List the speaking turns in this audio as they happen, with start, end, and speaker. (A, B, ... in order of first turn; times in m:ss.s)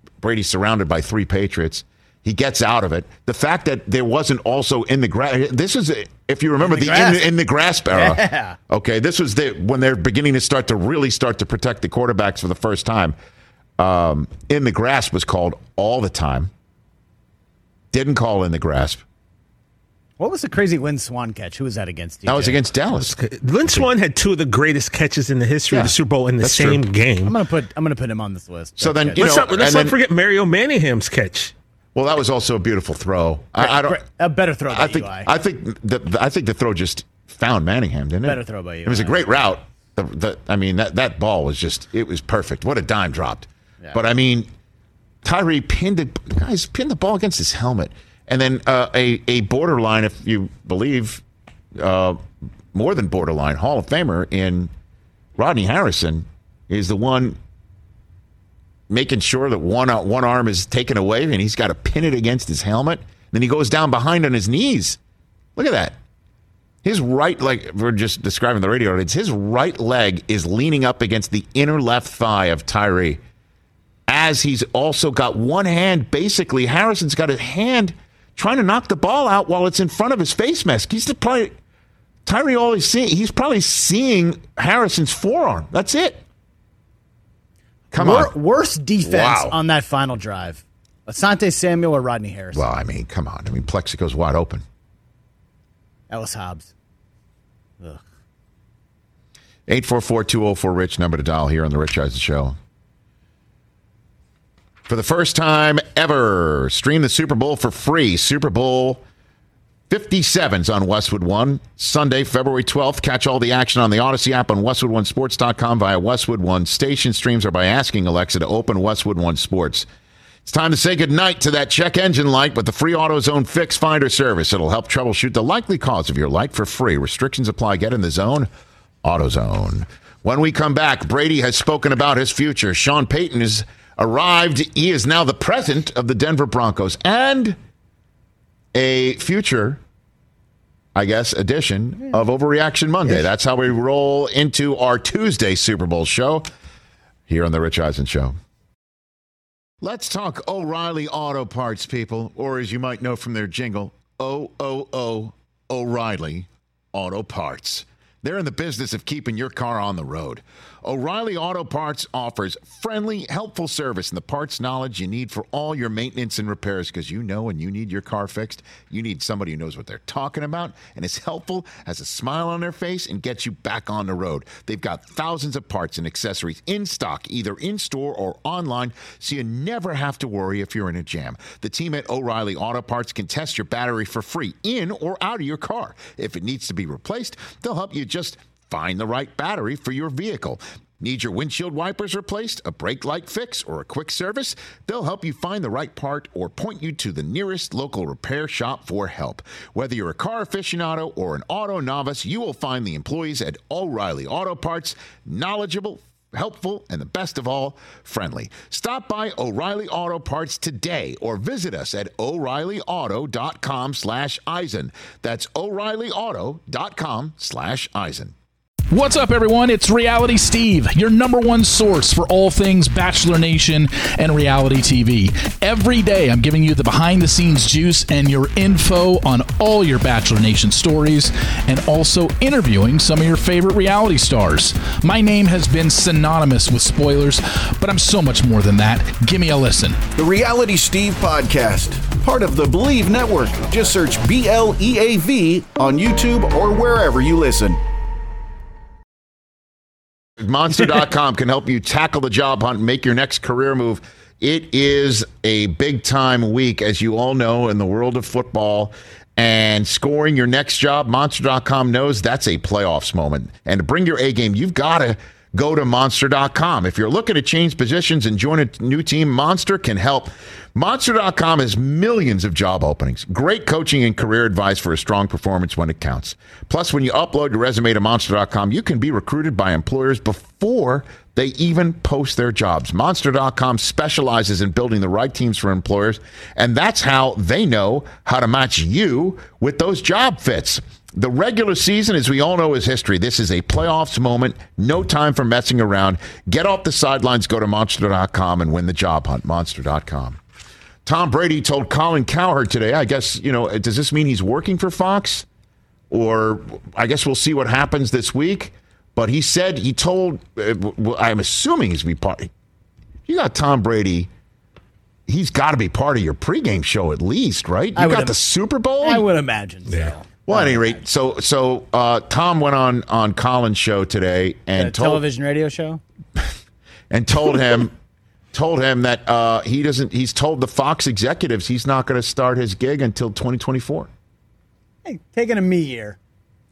0:00.2-0:13.2 A
0:06.6-0:07.3 B
0:07.9-0:08.6 B
0:13.8-0:16.5 A
0:17.9-0:19.0 A
0:20.2-0:22.6 B
0:22.3-0:23.9 A
0:23.0-0:27.4 C
0:25.7-0:26.8 A
0:27.2-0:29.3 B
0:28.8-0:30.0 A
0:29.2-0:31.5 C
0:32.0-0:34.0 A
0:33.6-0:35.3 B
0:34.7-0:44.5 A
0:38.2-0:39.2 B
0:45.2-0:51.2 A
0:51.8-0:54.7 A
0:55.4-0:57.4 A
0:58.9-1:05.0 A
1:05.6-1:06.0 A
1:06.8-1:13.2 A
1:14.1-1:21.6 A
1:22.3-1:26.2 A
1:27.9-1:28.4 A
1:27.9-1:32.7 B
1:29.0-1:29.6 A
1:32.5-1:34.6 A
1:36.1-1:36.7 B
1:39.7-1:42.6 A
1:44.9-1:49.0 A
1:49.9-1:59.9 A
2:00.4-2:08.5 A
2:09.0-2:17.6 A
2:18.7-2:19.8 A
2:21.0-2:26.5 A
2:27.3-2:28.4 A
2:29.8-3:38.4 A
3:38.9-4:00.0 D
4:00.2-4:07.8 E
4:10.4-5:00.4 A
5:01.0-5:05.5 A
5:06.1-5:12.5 A
5:13.3-5:14.3 A
5:15.3-5:19.3 A
5:18.0-5:18.4 B
5:19.0-5:21.0 B
5:20.5-5:25.2 A
5:24.8-5:26.0 B
5:27.1-5:28.0 A
5:28.5-5:34.1 A
5:35.0-5:36.2 B